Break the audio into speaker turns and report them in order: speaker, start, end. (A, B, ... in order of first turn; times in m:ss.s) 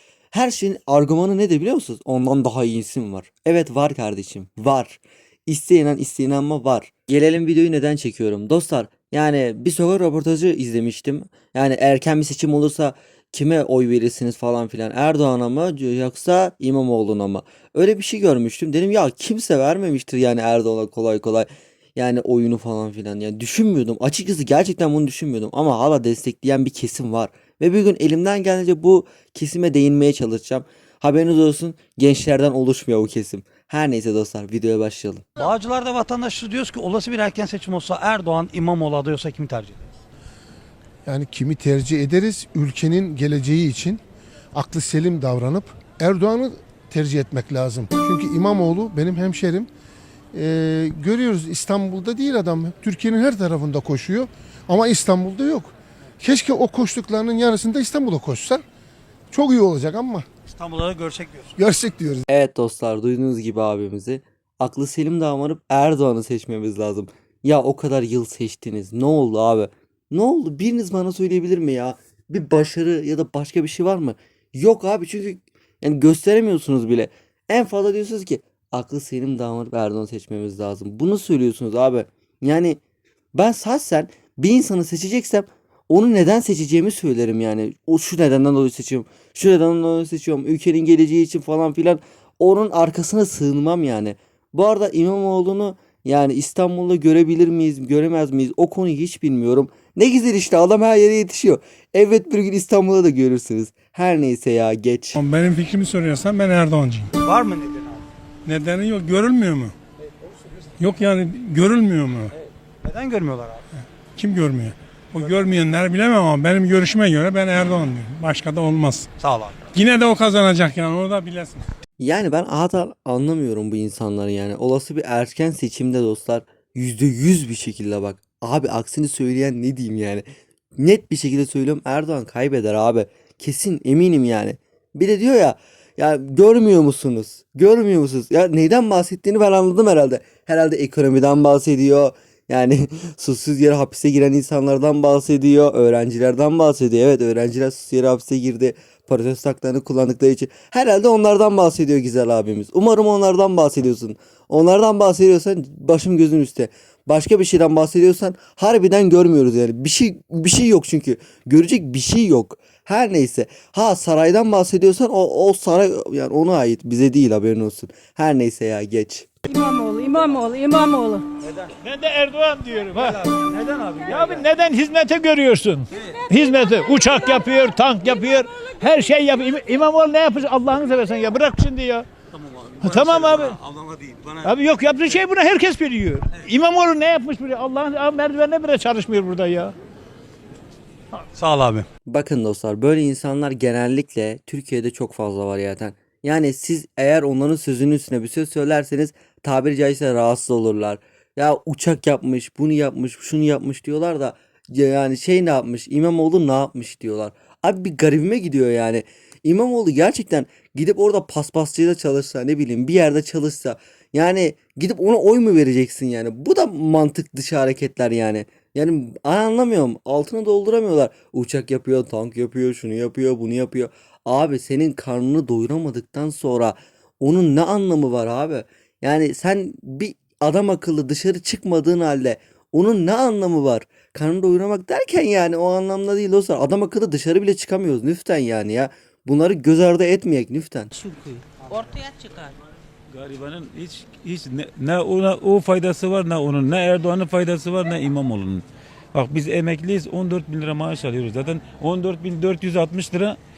0:00.3-0:35.2 A
0:35.4-0:40.0 B
0:41.0-0:44.0 C
0:44.5-0:49.7 C
0:50.3-0:58.6 C
0:59.3-1:00.3 C
1:00.5-1:01.5 B
1:01.6-1:02.2 C
1:02.3-1:22.8 A
1:23.3-1:45.2 A
1:45.2-1:47.1 D
1:47.2-1:48.1 B
1:48.4-1:49.7 D
1:50.8-1:52.3 D
1:52.8-1:53.6 B
1:54.2-1:59.1 D
1:59.2-1:59.6 B
1:59.7-2:01.6 D
2:02.0-2:10.2 A
2:10.8-2:49.3 A
2:49.4-2:51.2 E
2:50.1-2:50.4 F
2:51.8-2:53.4 E
2:53.1-2:54.5 B
2:54.1-3:02.1 E
3:02.3-3:04.5 B
3:02.8-3:03.6 E
3:04.4-3:09.8 E
3:11.3-3:11.9 B
3:12.1-4:00.9 A
4:00.9-4:02.6 F
4:03.1-4:13.4 G